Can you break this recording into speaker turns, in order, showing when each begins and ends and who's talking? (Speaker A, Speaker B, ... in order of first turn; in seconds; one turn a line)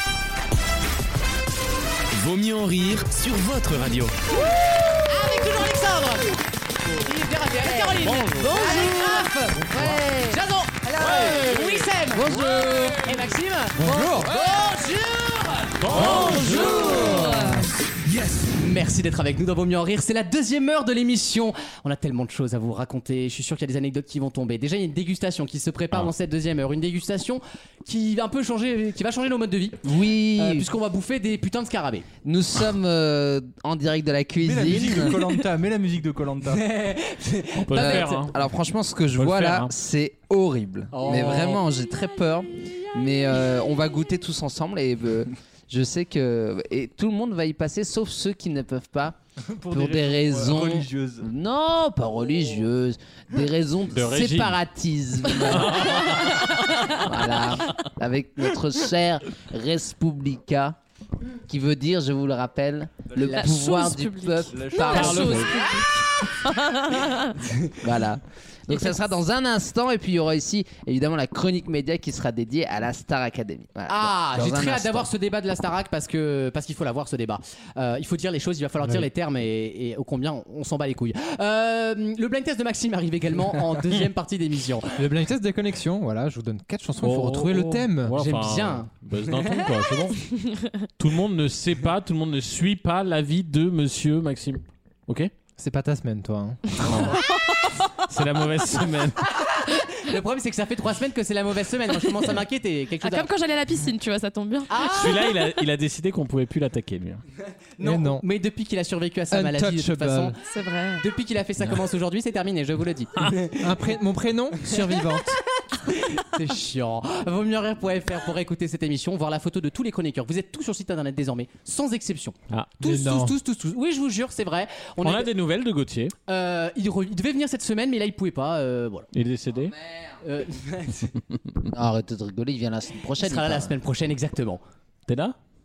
Speaker A: 2.1-4.2
Speaker B: 5.1-6.3
Speaker B: 7.0-9.6
Speaker C: 7.6-10.4
Speaker B: 10.3-12.4
Speaker C: 11.1-11.5
Speaker C: 12.1-13.2
Speaker B: 12.9-17.2
Speaker C: 13.8-14.3
Speaker D: 15.8-17.2
Speaker C: 15.9-17.7
Speaker E: 17.1-17.6
Speaker B: 18.6-29.8
Speaker C: 29.8-30.7
Speaker B: 30.4-32.0
Speaker C: 32.2-35.3
Speaker F: 34.4-36.6
Speaker B: 36.5-38.2
Speaker D: 37.7-38.3
Speaker C: 37.7-49.2
Speaker D: 39.2-39.7
Speaker B: 40.9-41.6
Speaker F: 49.5-51.3
Speaker C: 49.7-56.1
Speaker D: 53.9-54.6
Speaker D: 55.4-56.5
Speaker C: 57.0-60.8
Speaker C: 61.5-65.5
Speaker F: 63.1-63.5
Speaker E: 63.2-67.3
Speaker F: 64.5-65.7
Speaker C: 67.8-75.1
Speaker B: 73.9-84.9
Speaker G: 85.0-88.4
Speaker D: 87.0-90.2
Speaker B: 88.2-88.9
Speaker D: 91.0-95.3
Speaker G: 95.6-96.9
Speaker D: 96.8-97.2
Speaker D: 98.1-99.3
Speaker B: 99.6-103.3
Speaker E: 103.0-104.8
Speaker B: 104.7-105.3
Speaker D: 104.9-107.2
Speaker B: 107.8-110.3
Speaker G: 107.8-108.2
Speaker G: 109.3-110.4
Speaker E: 110.4-111.0
Speaker B: 111.0-113.7
Speaker G: 113.6-115.4
Speaker B: 115.9-125.3
Speaker G: 122.8-123.4
Speaker D: 125.0-126.1
Speaker B: 126.3-129.1
Speaker D: 129.1-129.7
Speaker B: 130.2-131.1
Speaker C: 131.7-133.7
Speaker B: 133.2-134.6
Speaker D: 135.1-135.3